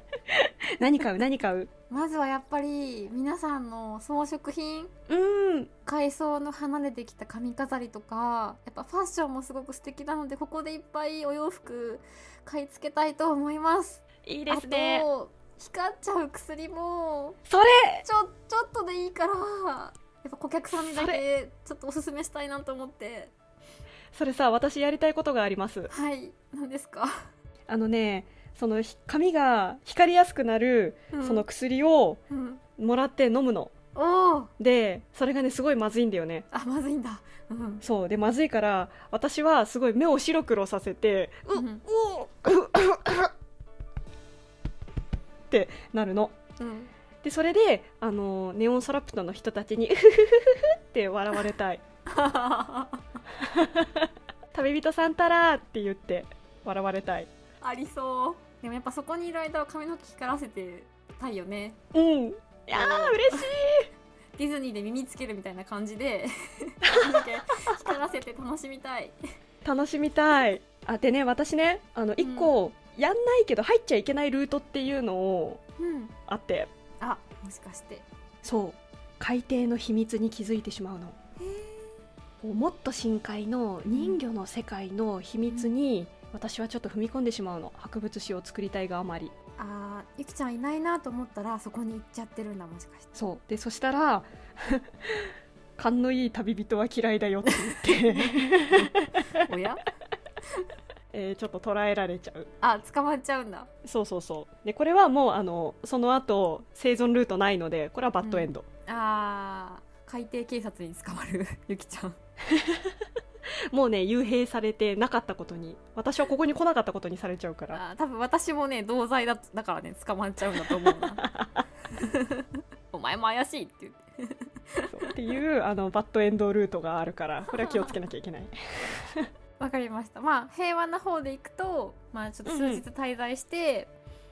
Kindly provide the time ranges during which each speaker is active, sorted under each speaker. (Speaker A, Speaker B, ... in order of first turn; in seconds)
Speaker A: 0.3-1.7, 5.1-5.7, 14.2-15.1, 17.5-18.0, 20.7-21.2, 24.1-25.9, 27.7-32.2, 32.8-33.7, 34.6-36.5, 37.8-43.3, 45.5-46.3, 47.2-51.8, 53.4-57.3, 61.9-63.9, 69.6-75.6, 76.3-76.7, 78.4-81.2, 82.4-89.3, 93.1-99.2, 101.1-102.5, 103.8-108.7, 112.5-113.0, 113.7-117.8, 121.0-121.6, 124.9-129.3, 132.4-132.8
Speaker B: 1.9-4.9, 5.8-17.4, 18.0-23.3, 25.9-27.2, 31.1-31.4, 32.3-32.6, 33.9-34.5, 36.5-37.8, 41.5-41.8, 46.6-46.9, 52.1-53.0, 57.6-61.8, 62.7-63.5, 64.3-69.2, 72.2-72.5, 75.8-76.1, 77.0-78.1, 81.4-82.0, 83.9-84.2, 89.6-93.1, 97.4-99.8, 102.6-103.7, 108.2-112.2, 117.7-121.3, 121.9-125.1, 127.5-127.9, 129.6-133.9